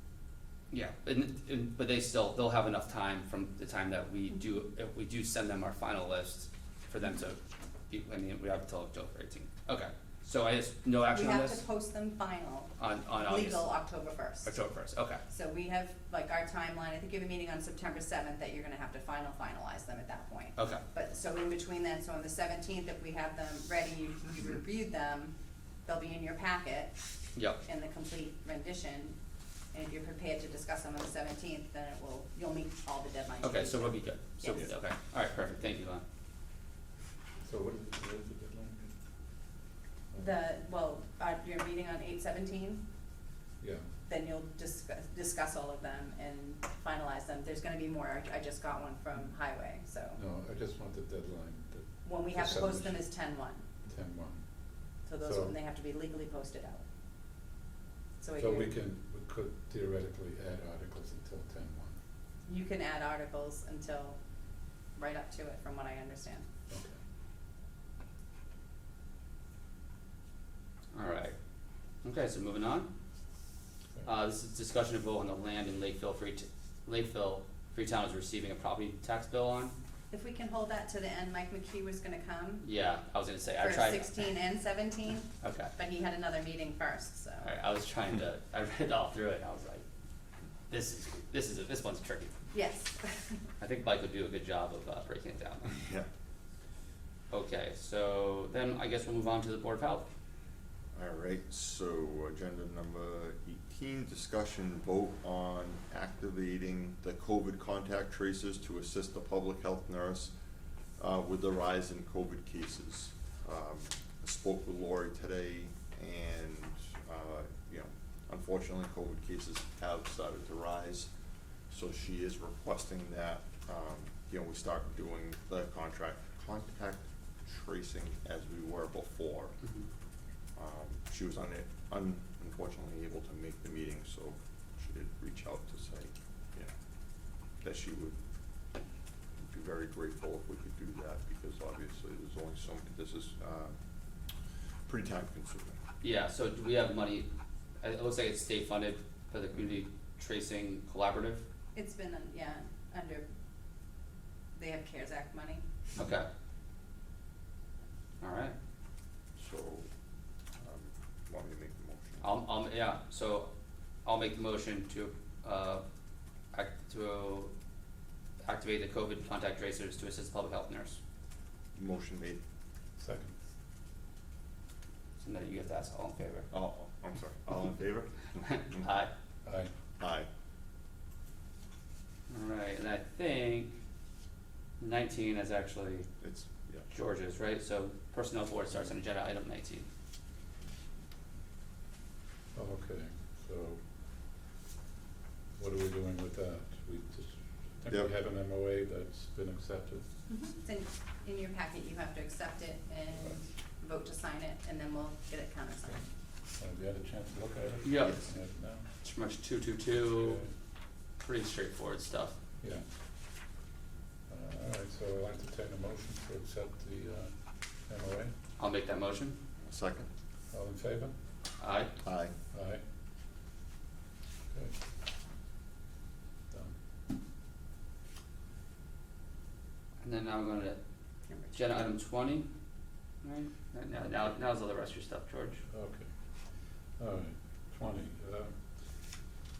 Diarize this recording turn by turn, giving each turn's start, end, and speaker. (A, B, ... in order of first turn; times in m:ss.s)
0:00.7-0:11.6 A
0:11.1-0:14.5 B
0:12.8-0:13.7 A
0:14.4-0:15.2 A
0:15.3-0:25.3 B
0:20.6-0:20.8 A
0:25.8-0:26.9 B
0:27.6-0:29.2 B
0:29.7-0:34.7 B
0:33.4-0:36.0 A
0:37.4-0:38.9 C
0:40.2-0:42.8 B
0:43.6-0:43.9 C
0:44.1-0:50.2 B
0:50.1-0:53.0 C
0:52.0-0:53.6 B
0:53.8-0:54.4 C
0:55.0-0:56.8 B
0:55.2-0:55.5 C
0:58.2-0:58.7 B
0:58.4-1:02.0 C
1:02.4-1:04.2 B
1:05.0-1:06.4 B
1:06.7-1:07.0 C
1:10.9-1:11.3 A
1:12.0-1:12.9 A
1:14.0-1:19.8 A
1:20.1-1:22.6 B
1:22.6-1:24.3 A
1:23.6-1:27.5 B
1:25.4-1:25.7 A
1:27.4-1:29.8 A
1:30.7-1:32.3 A
1:32.5-1:33.4 B
1:33.6-1:35.7 A
1:35.7-1:36.1 D
1:37.3-1:40.0 A
1:40.9-1:50.3 D
1:51.0-2:01.1 D
2:01.7-2:09.6 D
2:10.6-2:16.7 D
2:17.6-2:18.2 D
2:19.4-2:23.8 D
2:24.9-2:25.8 D
2:26.0-2:27.3 A
2:27.8-2:31.4 A
2:31.7-2:33.3 B
2:34.5-2:35.6 B
2:36.0-2:36.3 A
2:38.2-2:38.5 A
2:39.4-2:39.9 D
2:40.6-2:42.2 D
2:42.2-2:43.5 A
2:44.0-2:45.8 A
2:46.5-2:47.5 A
2:48.4-2:51.0 A
2:51.7-2:52.4 D
2:53.0-2:53.4 C
2:55.2-2:56.5 A
2:56.5-2:58.8 D
2:58.4-2:59.1 A
2:59.4-2:59.7 C
3:00.0-3:00.3 D
3:02.3-3:03.7 A
3:04.8-3:06.1 A
3:06.2-3:06.9 D
3:06.9-3:09.8 A
3:12.5-3:13.8 C
3:15.6-3:20.0 C
3:20.3-3:26.0 B
3:26.6-3:28.8 C
3:27.8-3:28.2 A
3:29.0-3:30.4 A
3:30.1-3:30.5 C
3:31.2-3:32.3 A
3:34.3-3:37.3 C
3:37.8-3:38.3 C
3:38.6-3:39.4 A
3:39.6-3:40.1 D
3:40.5-3:41.1 C
3:41.6-3:41.9 A
3:42.0-3:42.3 D
3:42.5-3:42.8 C
3:50.0-3:50.8 A
3:51.3-3:51.6 B
3:51.5-3:52.5 A
3:53.2-3:55.6 A
3:55.7-3:56.1 C
3:57.0-3:58.6 C